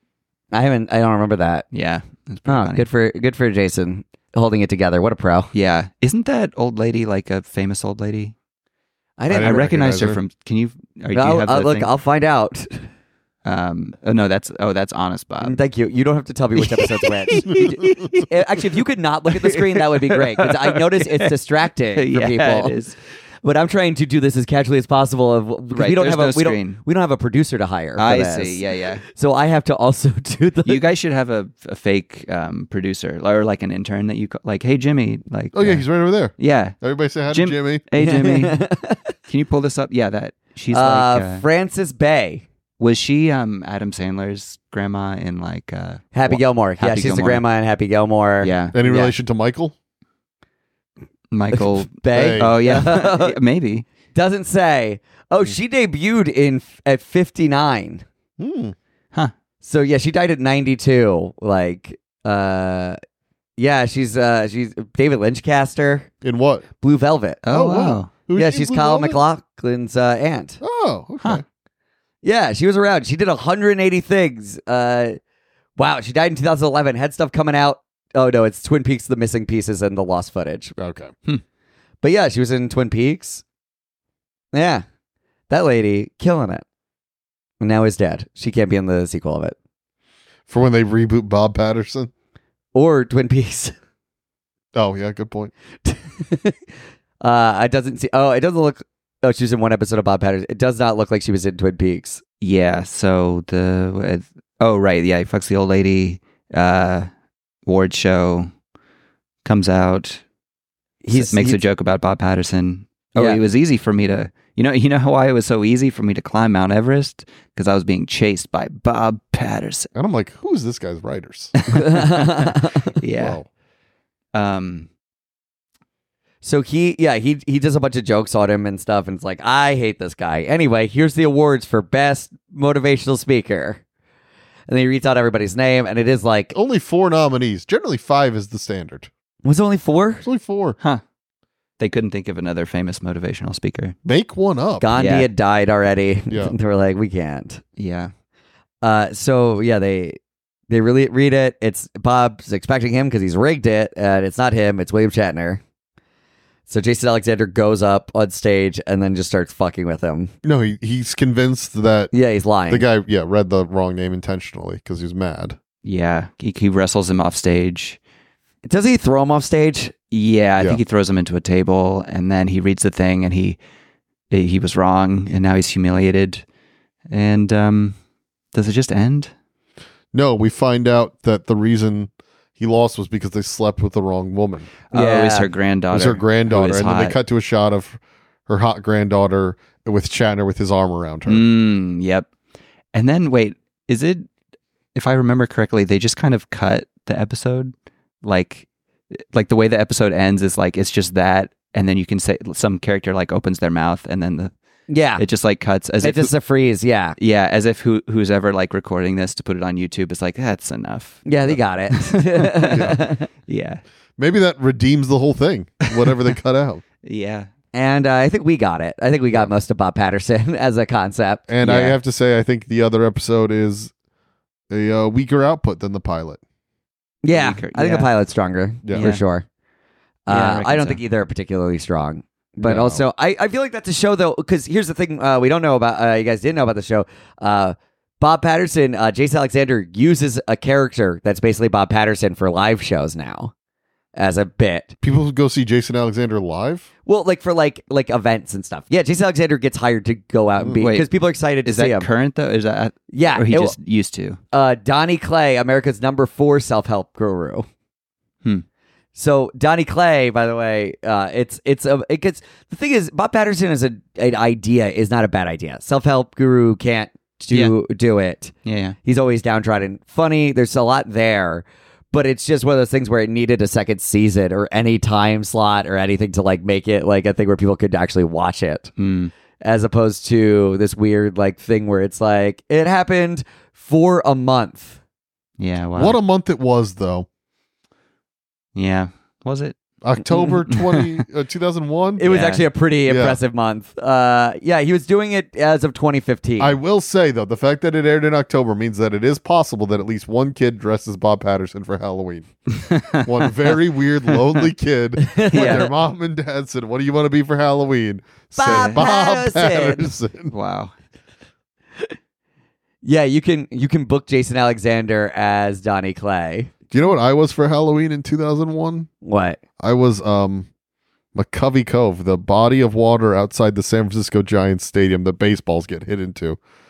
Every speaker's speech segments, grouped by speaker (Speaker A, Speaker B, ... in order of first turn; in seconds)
Speaker A: 0.5-1.7, 2.5-5.5, 9.2-9.7, 11.1-12.9, 15.4-22.8, 23.4-30.8, 38.0-39.1, 40.7-42.5, 46.1-49.1, 51.5-53.4, 54.1-58.0, 59.6-63.0, 63.6-66.1, 66.8-67.4, 68.3-70.6, 72.2-75.2, 75.8-80.8, 82.0-83.4, 84.5-84.8, 85.5-86.7, 87.6-89.6, 92.7-93.8, 95.8-96.6, 97.2-102.2, 111.0-111.6, 121.7-122.9, 126.4-133.8, 134.7-136.5, 139.4-140.3, 144.8-147.6, 148.8-150.2, 150.7-155.6, 156.7-160.3, 162.1-162.8, 168.7-169.9, 184.9-185.5, 204.9-205.2, 206.0-207.2, 211.3-213.3, 217.7-222.0, 227.2-229.5, 230.3-243.5, 244.2-244.9, 247.1-252.1, 253.1-253.8, 254.5-257.7, 259.1-268.5, 269.0-278.9, 279.6-285.0, 292.2-296.8, 305.2-305.9, 308.6-310.1, 313.0-316.7, 319.2-319.6
Speaker B: 1.7-2.9, 5.5-8.3, 9.3-11.9, 13.4-15.6, 16.6-18.6, 19.3-21.3, 22.0-23.0, 25.7-26.8, 28.0-29.0, 30.6-35.8, 36.4-36.8, 37.3-38.6, 39.3-41.5, 42.8-47.4, 48.4-48.8, 51.3-53.9, 67.4-68.1, 102.4-107.1, 107.7-108.5, 109.5-110.2, 111.1-119.9, 121.6-123.4, 124.3-124.9, 141.8-143.9, 145.0-145.3, 147.8-148.1, 165.8-168.0, 170.1-173.6, 174.3-176.4, 177.1-178.0, 178.5-179.3, 184.9-187.2, 191.3-192.3, 192.9-194.3, 194.9-197.7, 198.2-204.5, 205.2-206.3, 207.2-211.3, 211.9-213.8, 215.9-216.2, 217.0-217.5, 227.3-228.1, 228.9-229.2, 230.3-231.0, 250.8-251.1, 251.6-254.4, 268.6-269.0, 279.0-279.3, 285.6-286.2, 288.8-289.8, 290.7-291.2, 292.3-292.6, 302.8-303.7, 305.5-305.9, 308.6-309.1, 310.5-310.9
Speaker C: 9.3-10.2, 35.5-37.8, 48.7-49.7, 52.1-52.5, 58.4-58.8, 66.2-66.7, 67.5-69.2, 70.6-71.4, 80.8-81.1, 90.5-92.1, 94.7-95.5, 120.0-121.5, 123.2-123.5, 136.5-139.1, 140.2-140.8, 144.1-144.9, 146.3-146.5, 160.4-162.1, 162.7-165.6, 180.1-184.7, 185.9-191.5, 214.2-216.8, 221.5-223.9, 224.7-226.4, 232.6-233.0, 245.0-246.9, 286.0-287.3, 290.0-292.3, 293.1-293.4, 296.6-302.5, 303.1-310.5, 316.9-319.1, 319.8-320.7, 321.3-326.6